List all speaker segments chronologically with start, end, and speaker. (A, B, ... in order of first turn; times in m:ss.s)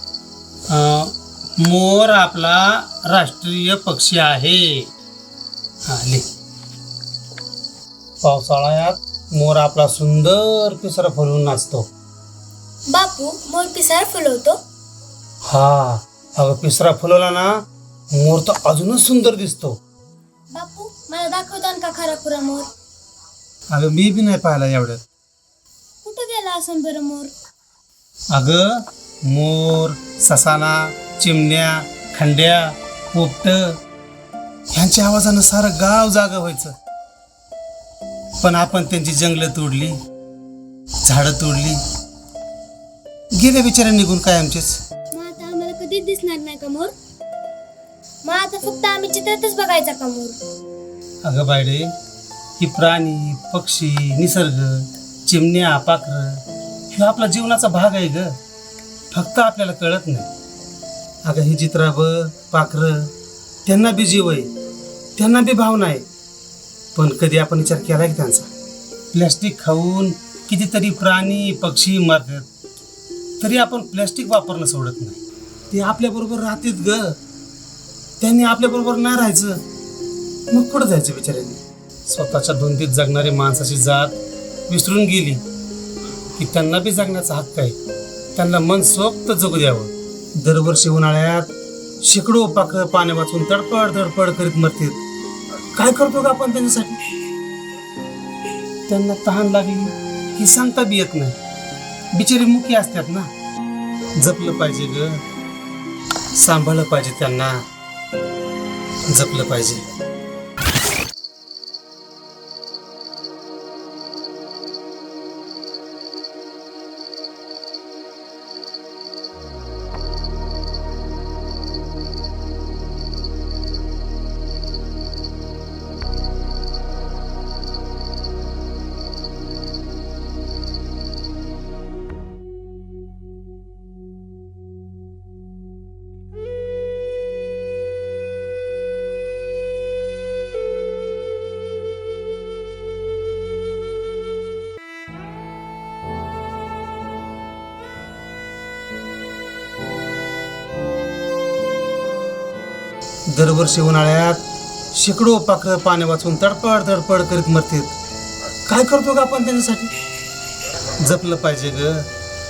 0:00.7-0:01.1 A
0:01.6-0:04.9 A
0:05.9-0:06.2 A
0:08.2-0:11.8 A
0:12.9-0:14.6 B
0:15.5-0:17.5 A
0:18.2-0:19.8 A
0:20.5-0:22.7 B
0:23.7-0:25.0 A
0:26.0-0:27.3 B
0:28.3-0:33.8 A
0:34.7-0:36.7 A
0:38.4-0:40.0 A
0:41.0-0:41.8 A
0:43.4-0:44.8 A
0:45.1-0:46.9 B
0:48.2-0:50.4 B
0:51.2-0:51.9 A
0:52.6-0:56.4 A
0:56.9-0:58.3 A
0:59.1-1:00.3 A
1:01.2-1:03.1 A
1:03.6-1:04.5 A
1:05.2-1:06.0 A
1:06.9-1:08.5 A
1:09.1-1:12.5 A
1:13.4-1:15.2 A
1:15.7-1:17.2 A
1:18.2-1:19.6 A
1:20.5-1:24.2 A
1:24.7-1:25.4 A
1:26.4-1:27.8 A
1:28.4-1:31.5 A
1:32.0-1:35.0 A
1:35.7-1:37.0 A
1:38.9-1:41.4 A
1:42.1-1:43.3 A
1:44.2-1:45.2 A
1:46.4-1:47.6 A
1:49.1-1:49.8 A
2:33.3-2:34.4 A
2:34.9-2:37.9 A
2:38.7-2:39.9 A
2:41.0-2:42.1 A